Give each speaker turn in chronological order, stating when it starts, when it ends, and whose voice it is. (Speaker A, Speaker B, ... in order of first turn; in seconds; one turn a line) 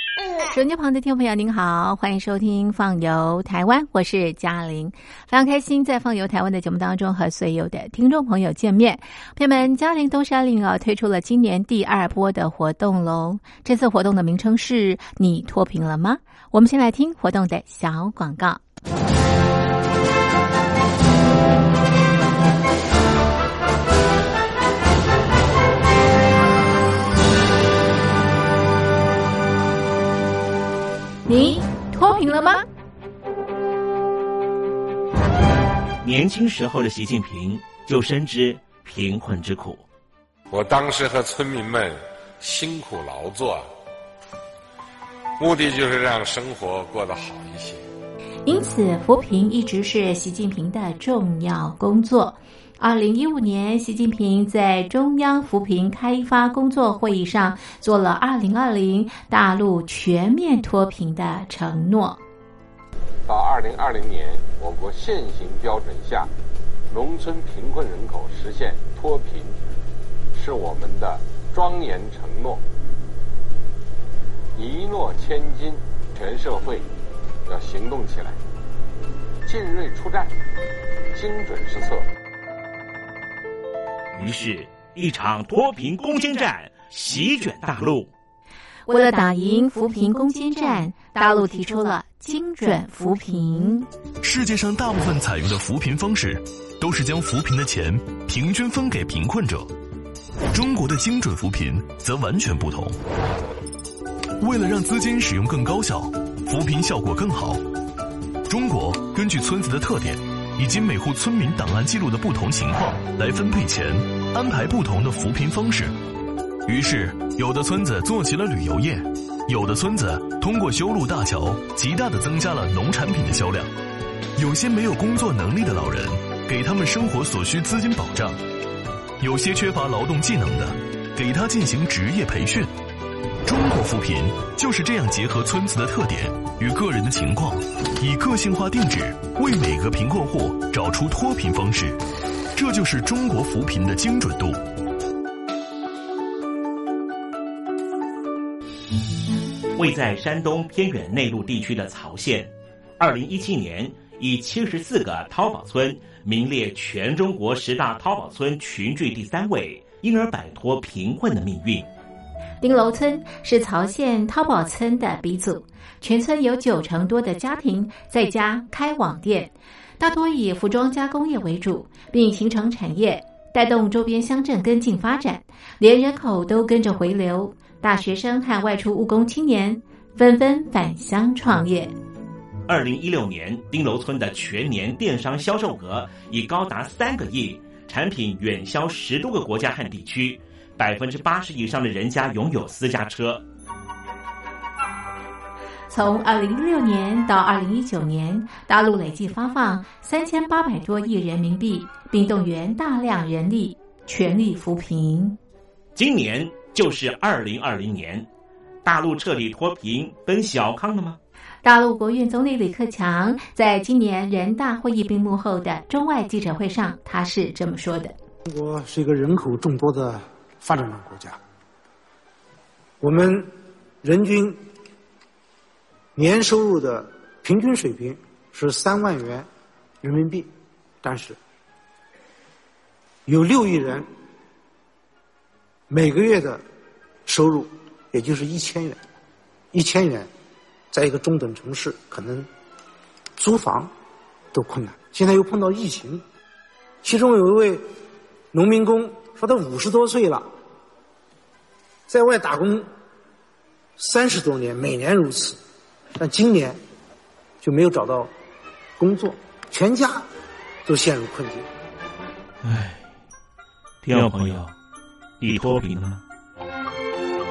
Speaker A: 0.5-18.6
Speaker A: 31.3-32.6
Speaker B: 36.0-39.8
Speaker C: 40.5-43.7
Speaker C: 45.4-47.8
Speaker A: 48.5-62.2
Speaker D: 63.3-66.3
Speaker D: 66.9-69.6
Speaker D: 70.3-72.6
Speaker D: 74.5-76.9
Speaker D: 77.5-78.4
Speaker D: 79.4-80.3
Speaker D: 81.1-82.0
Speaker B: 84.1-88.1
Speaker A: 88.9-93.9
Speaker E: 94.2-99.7
Speaker E: 100.5-103.0
Speaker E: 104.4-107.6
Speaker E: 108.5-115.9
Speaker E: 116.6-123.7
Speaker E: 124.4-128.4
Speaker E: 129.2-132.7
Speaker E: 133.4-142.0
Speaker E: 142.5-144.6
Speaker B: 149.8-161.9
Speaker A: 162.6-181.9
Speaker B: 182.7-193.4
Speaker A: 195.9-205.4
Speaker B: 205.9-208.3
Speaker B: 208.8-211.2
Speaker A: 211.6-218.1
Speaker F: 218.4-221.4
Speaker F: 223.0-223.5
Speaker F: 224.0-224.6
Speaker F: 226.2-229.4
Speaker F: 230.0-230.5
Speaker F: 231.0-231.4
Speaker F: 233.2-234.1
Speaker F: 235.9-236.6
Speaker F: 237.3-239.0
Speaker F: 239.7-240.3
Speaker F: 240.9-242.5
Speaker F: 243.4-243.9
Speaker F: 244.5-246.2
Speaker F: 247.0-247.8
Speaker F: 248.5-250.4
Speaker F: 252.1-252.8
Speaker F: 254.0-255.6
Speaker F: 256.2-256.8
Speaker F: 257.6-258.3
Speaker F: 259.0-260.2
Speaker F: 260.8-261.6
Speaker B: 262.6-263.0
Speaker B: 264.0-264.7
Speaker B: 265.4-266.2